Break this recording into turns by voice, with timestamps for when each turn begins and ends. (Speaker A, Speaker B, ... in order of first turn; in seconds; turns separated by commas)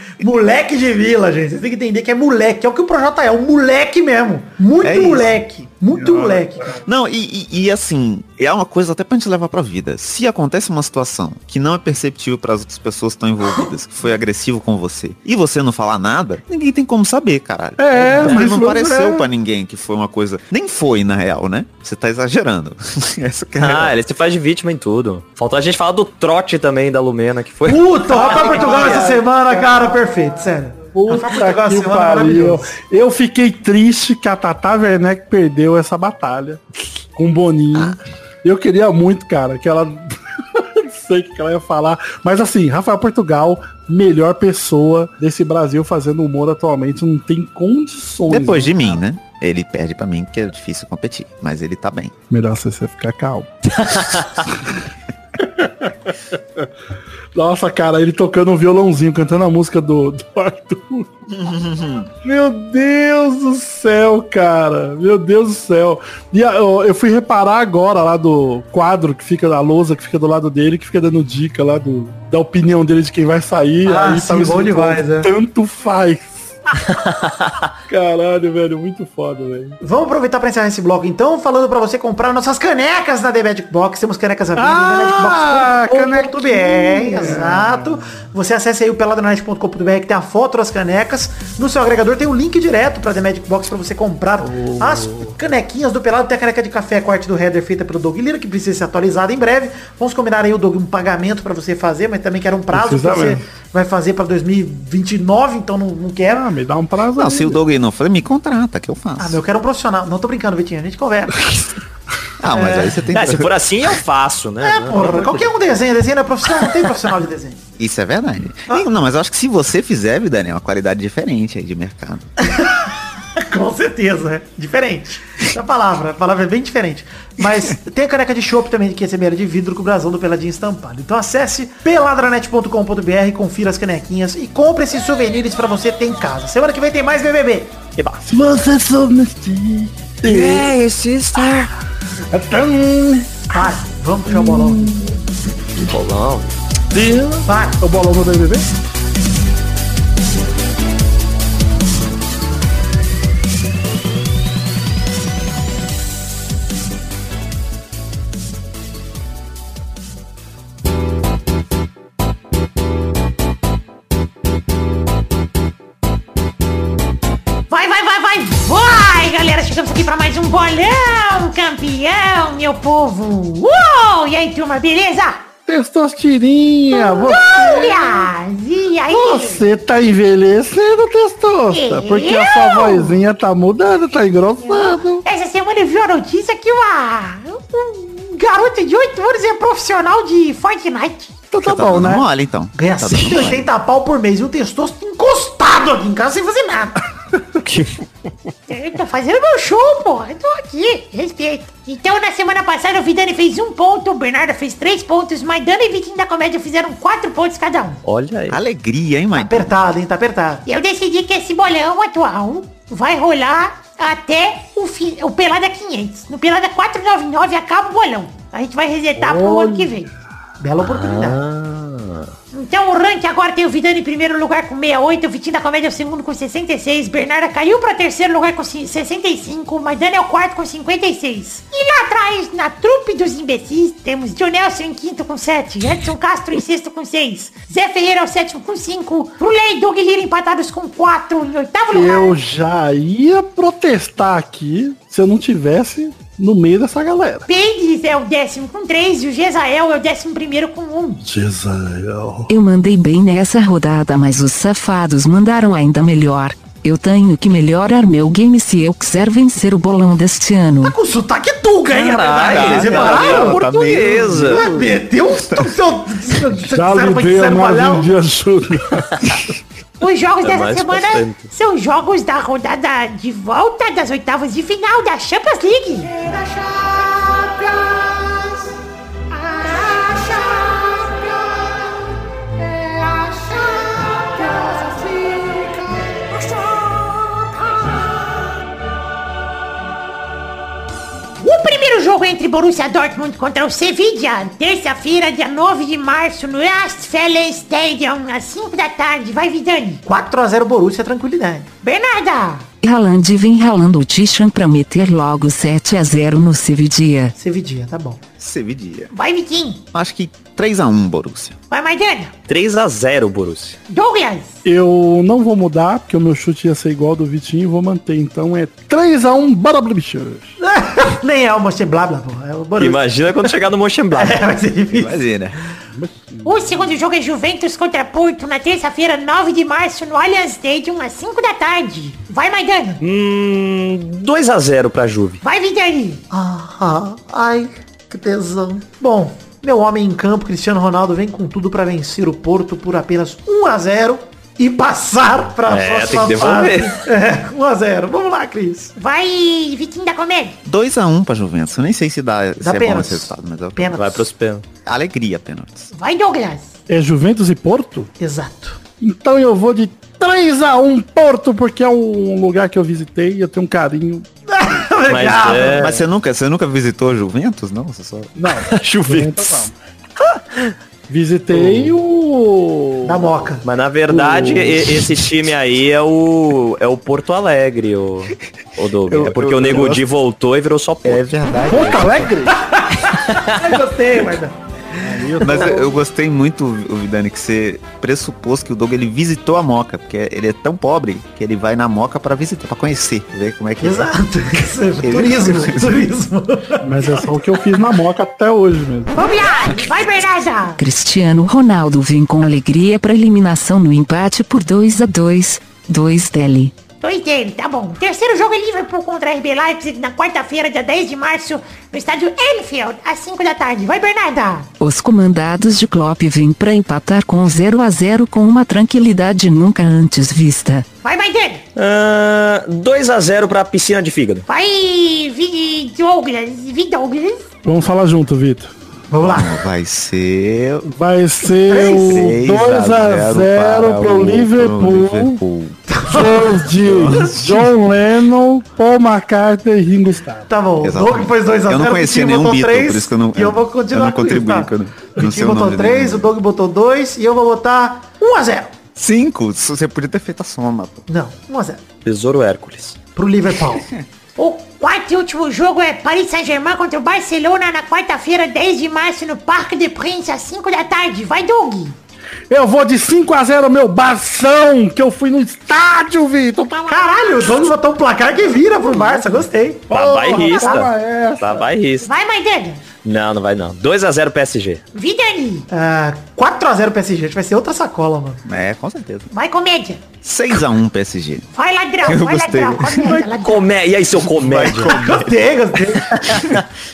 Speaker A: 0.2-6.8, Speaker B: 4.8-5.3, Speaker C: 5.9-6.8, Speaker B: 6.8-24.0, Speaker C: 17.8-19.3, Speaker D: 23.6-27.9, Speaker A: 27.6-32.7, Speaker B: 28.1-29.6, Speaker C: 28.4-29.1, Speaker C: 30.9-48.8, Speaker B: 48.3-52.1, Speaker C: 52.3-54.3, Speaker C: 55.4-56.7, Speaker C: 57.4-61.1, Speaker B: 61.3-62.1, Speaker C: 62.2-76.6, Speaker A: 73.8-75.3, Speaker D: 76.8-77.7, Speaker C: 77.9-79.8, Speaker A: 79.8-106.5, Speaker C: 84.6-88.0, Speaker C: 94.4-95.3, Speaker C: 102.7-103.4, Speaker C: 106.3-107.6, Speaker B: 107.2-109.4, Speaker A: 109.2-111.6, Speaker B: 112.4-113.6, Speaker A: 112.5-113.0, Speaker D: 113.1-115.5, Speaker A: 114.6-117.6, Speaker B: 117.8-122.3, Speaker A: 122.4-122.8, Speaker A: 123.4-137.7, Speaker C: 138.2-140.7, Speaker D: 140.2-141.7, Speaker C: 142.3-143.7, Speaker A: 143.5-145.2, Speaker C: 144.3-145.1, Speaker D: 145.8-146.5, Speaker C: 146.9-148.7, Speaker A: 147.5-147.8, Speaker E: 167.7-175.5, Speaker C: 175.7-178.3, Speaker E: 176.9-179.6, Speaker C: 179.1-185.2, Speaker E: 181.7-183.2, Speaker E: 184.7-191.4, Speaker C: 191.5-192.3, Speaker B: 191.6-193.7, Speaker A: 192.8-197.0, Speaker D: 197.6-198.0, Speaker E: 198.7-208.0, Speaker D: 208.1-208.6, Speaker B: 208.5-209.7, Speaker A: 209.3-210.7, Speaker E: 210.7-220.1, Speaker C: 219.2-219.9, Speaker A: 220.6-221.4, Speaker D: 220.8-222.3, Speaker E: 222.5-242.4, Speaker C: 241.9-247.5, Speaker E: 247.5-251.2, Speaker C: 251.2-252.5, Speaker F: 252.5-261.0, Speaker A: 260.8-263.9, Speaker D: 261.9-264.6, Speaker B: 262.4-265.7, Speaker A: 264.4-268.1, Speaker C: 266.7-269.5, Speaker E: 270.0-277.2, Speaker D: 270.4-271.5, Speaker A: 276.3-278.6, Speaker E: 279.3-282.0, Speaker E: 282.6-288.0, Speaker E: 291.4-300.0, Speaker A: 300.1-301.7, Speaker E: 301.8-302.7, Speaker F: 302.8-307.3, Speaker A: 307.4-308.2, Speaker B: 308.4-309.1, Speaker E: 309.1-309.8, Speaker B: 309.9-311.6, Speaker E: 311.7-312.3, Speaker D: 312.5-313.8, Speaker E: 313.9-314.5, Speaker C: 314.6-320.6, Speaker A: 320.6-323.5, Speaker D: 322.8-324.5, Speaker A: 324.1-325.2, Speaker B: 324.9-325.6, Speaker C: 325.9-326.9, Speaker E: 326.4-333.0, Speaker D: 333.0-335.4, Speaker E: 335.4-336.2, Speaker A: 336.3-348.9, Speaker D: 345.7-347.0, Speaker E: 349.0-350.6, Speaker B: 350.6-354.0, Speaker A: 352.6-354.2, Speaker D: 353.9-354.6, Speaker B: 354.9-355.9, Speaker E: 355.9-356.7, Speaker C: 356.9-358.1, Speaker A: 358.2-358.8, Speaker C: 359.0-364.3, Speaker A: 364.5-365.9, Speaker D: 365.1-366.0, Speaker B: 365.6-368.3, Speaker C: 368.4-369.7, Speaker D: 368.7-369.7, Speaker D: 370.3-370.7, Speaker C: 371.1-373.4, Speaker D: 371.6-372.0, Speaker A: 373.0-373.6, Speaker D: 373.6-382.1, Speaker C: 374.1-375.1, Speaker B: 379.1-380.0, Speaker B: 381.0-382.3, Speaker C: 381.6-382.5, Speaker A: 382.5-385.7, Speaker C: 385.0-385.9, Speaker B: 385.4-394.1, Speaker A: 393.8-397.1, Speaker B: 395.0-396.0, Speaker C: 396.8-399.2, Speaker E: 399.1-400.8, Speaker F: 400.8-406.7, Speaker E: 407.0-414.7, Speaker F: 414.8-420.9, Speaker E: 421.0-421.6, Speaker D: 421.8-424.5, Speaker E: 424.5-427.5, Speaker C: 427.6-428.7, Speaker A: 429.1-429.6, Speaker B: 429.2-430.9, Speaker C: 430.9-435.4, Speaker A: 431.6-432.4, Speaker B: 431.8-435.8, Speaker A: 435.9-436.5, Speaker C: 436.1-440.5, Speaker B: 436.7-437.6, Speaker A: 440.5-448.7, Speaker B: 440.8-446.3, Speaker B: 449.0-451.1, Speaker A: 451.1-451.8, Speaker D: 452.1-453.0, Speaker A: 453.1-453.9, Speaker E: 454.4-462.0, Speaker C: 462.5-466.9, Speaker E: 466.9-467.6, Speaker A: 466.9-469.9, Speaker C: 469.9-471.7, Speaker D: 469.9-472.1, Speaker E: 470.4-470.8, Speaker E: 472.0-472.8, Speaker D: 473.0-474.8, Speaker E: 474.9-475.7, Speaker A: 475.7-478.4, Speaker B: 478.4-479.3, Speaker E: 479.3-480.0, Speaker B: 480.2-481.5, Speaker E: 481.5-483.7, Speaker B: 482.0-483.2, Speaker D: 483.3-484.9, Speaker B: 484.2-486.6, Speaker A: 484.7-486.6